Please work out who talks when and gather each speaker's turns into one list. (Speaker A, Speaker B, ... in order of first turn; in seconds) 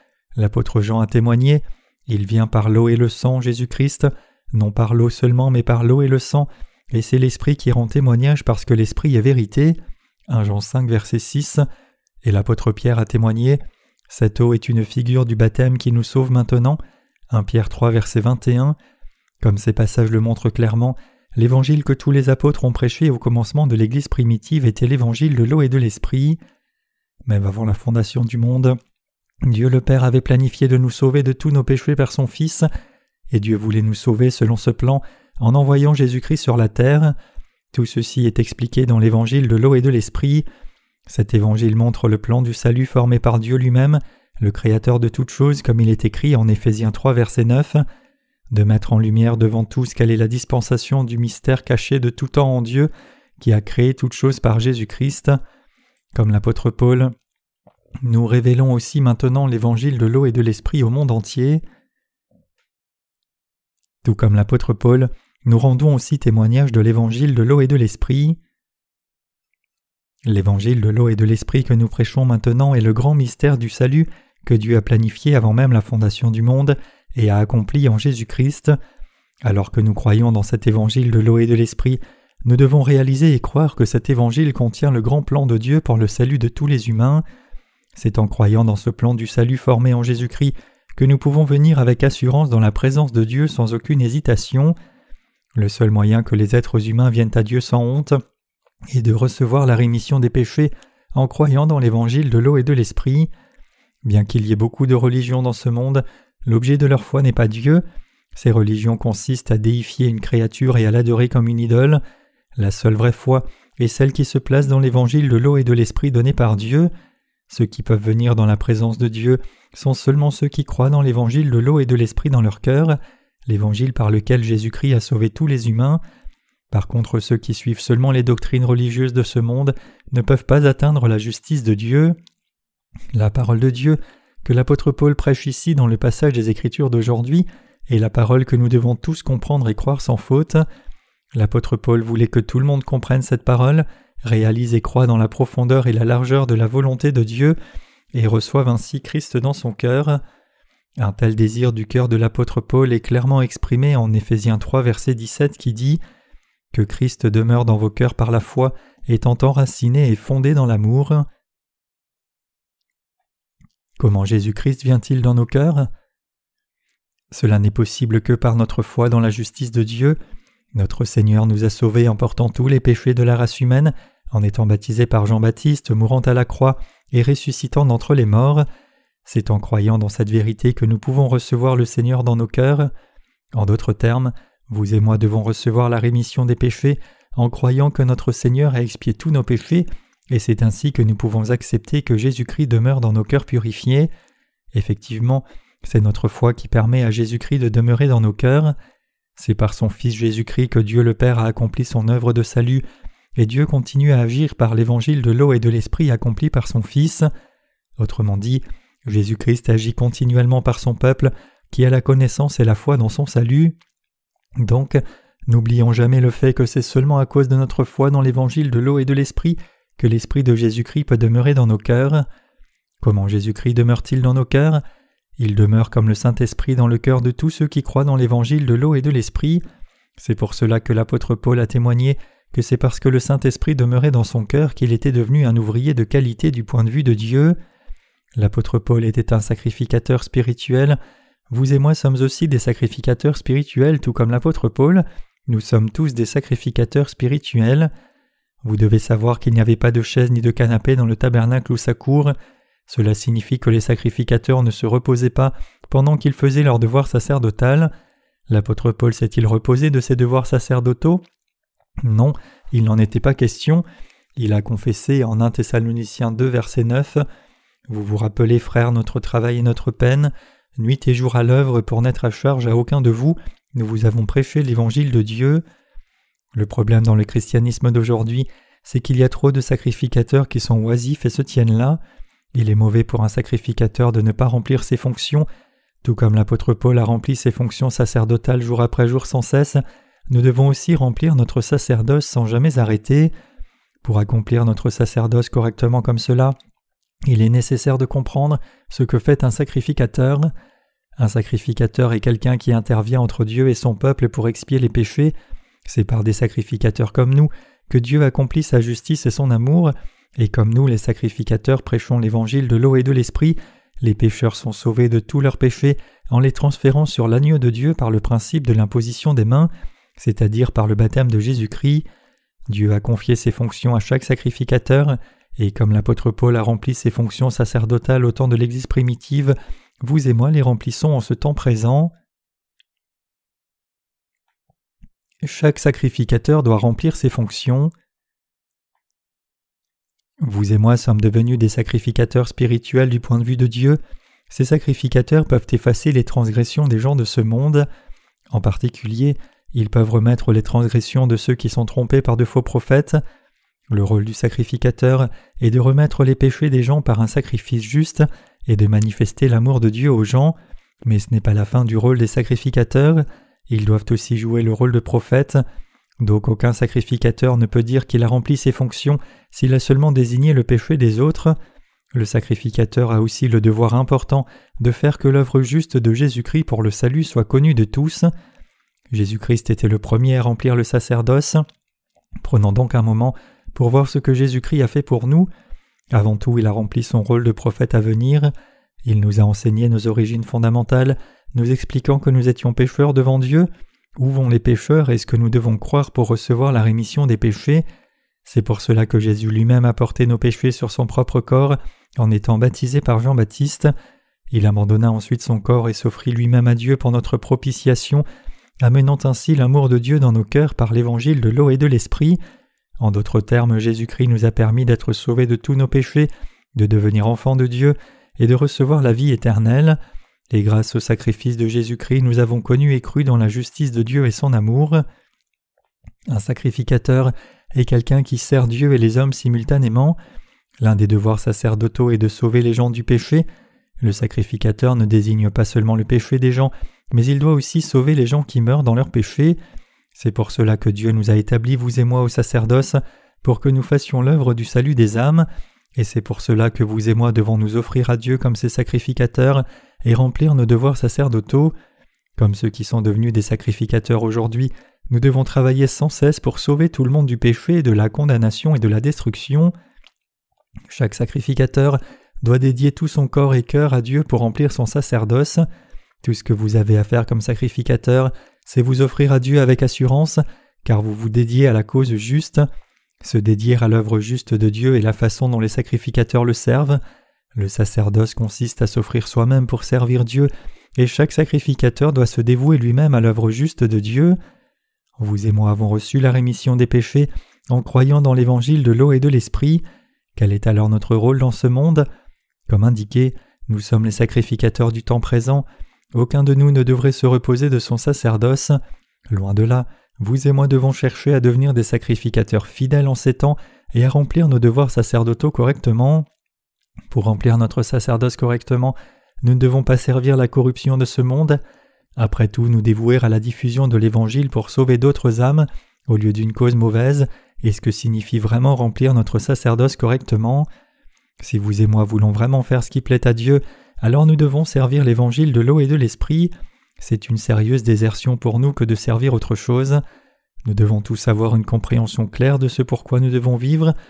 Speaker A: 0.4-11.6, 12.2-16.8, 17.3-18.8, 19.4-26.4, 27.3-28.8, 29.4-32.7, 33.3-37.1, 37.7-40.4, 41.1-47.8, 48.5-55.4, 56.1-57.1, 58.0-61.6, 64.0-68.4, 70.2-78.7, 79.4-87.2, 87.9-94.7, 95.5-98.2, 98.9-103.3, 104.0-107.8, 108.3-112.0, 112.6-116.9, 117.5-126.0, 126.7-132.2, 133.1-140.6, 141.3-147.6, 148.1-150.2, 151.0-156.0, 156.7-161.3, 164.0-165.9, 167.3-170.2, 170.7-178.7, 179.2-182.9, 183.5-194.1, 194.7-198.8, 199.4-202.8, 203.3-207.3, 208.0-213.7, 214.6-222.2, 223.0-224.8, 225.4-229.6, 230.2-237.6, 238.4-241.0, 241.5-247.9, 248.6-252.3, 252.9-257.9, 258.5-261.2, 262.0-263.8, 264.4-267.2, 267.9-275.6, 276.5-282.0, 282.5-285.4, 286.0-293.3, 294.0-296.6, 297.3-300.5, 301.2-305.3, 305.9-322.0, 322.7-332.1, 335.4-337.9, 340.4-344.0, 344.5-347.9, 348.5-353.2, 353.9-365.6, 366.2-371.6, 372.1-378.3, 379.1-381.6, 382.4-385.5, 386.1-388.5, 389.0-397.8, 398.4-403.9, 404.5-408.2, 408.8-412.4, 413.0-420.0, 420.5-425.0, 426.3-430.2, 430.8-433.4, 434.0-439.6, 440.1-451.7, 452.4-459.7, 460.9-465.6, 466.2-472.7, 473.2-477.0, 477.6-484.4, 485.2-489.8, 490.4-492.1, 492.7-498.8, 499.3-506.3, 507.1-511.6, 512.2-520.7, 521.4-530.0, 530.6-533.9